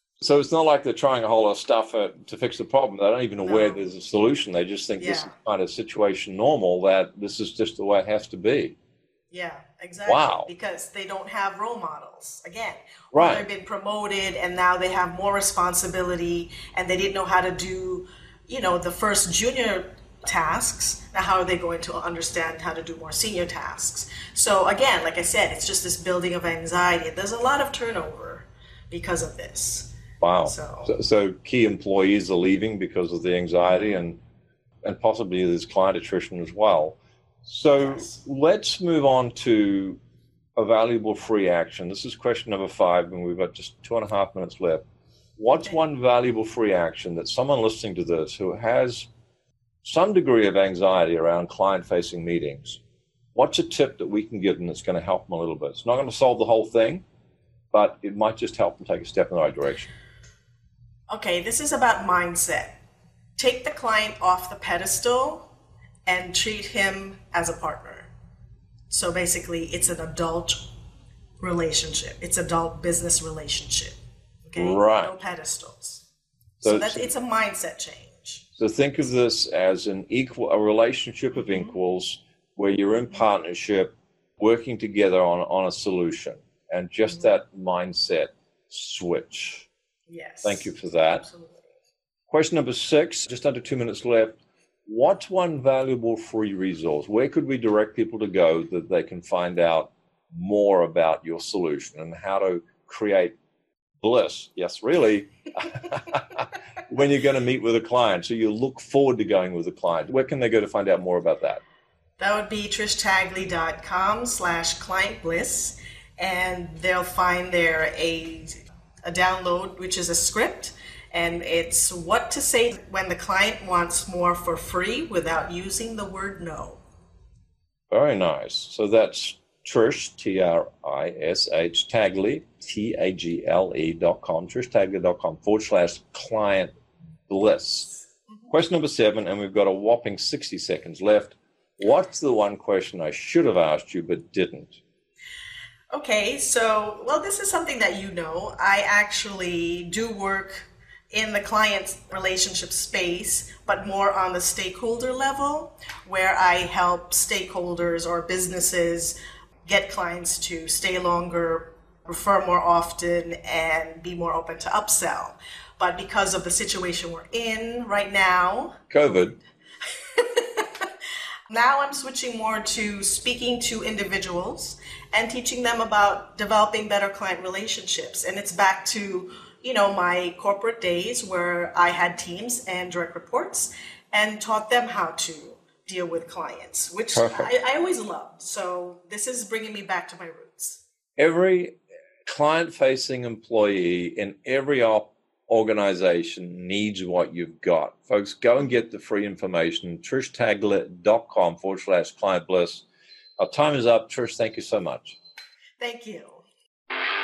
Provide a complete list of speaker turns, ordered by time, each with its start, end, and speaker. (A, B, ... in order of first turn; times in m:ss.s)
0:00.2-0:08.8 A
0:03.4-0:03.8 B
0:05.0-0:05.3 B
0:09.3-0:29.9 B
0:10.0-0:10.5 A
0:13.1-0:13.5 A
0:30.2-0:34.2 A
0:30.4-0:30.9 B
0:34.8-0:40.0 A
0:37.8-0:38.2 B
0:40.6-0:44.8 A
0:45.4-0:49.1 A
0:49.8-0:52.8 A
0:53.3-0:57.0 A
0:57.7-0:59.9 A
1:01.1-1:02.8 B
1:03.4-1:05.5 B
1:06.0-1:08.1 B
1:08.9-1:10.7 B
1:11.4-1:16.1 B
1:14.6-1:15.1 A
1:16.6-1:18.4 B
1:16.6-1:17.1 A
1:18.6-1:29.7 A
1:30.1-1:31.7 B
1:30.4-1:31.2 A
1:32.3-1:43.4 A
1:44.0-1:51.6 A
1:52.2-2:06.8 B
2:07.9-2:16.7 A
2:17.3-2:17.9 A
2:18.5-2:24.8 A
2:25.9-2:48.8 B
2:48.9-2:49.4 A
2:50.1-2:50.9 B
2:51.5-3:10.8 B
3:07.1-3:07.5 A
3:11.2-3:22.8 A
3:23.4-3:25.2 A
3:25.8-3:26.4 B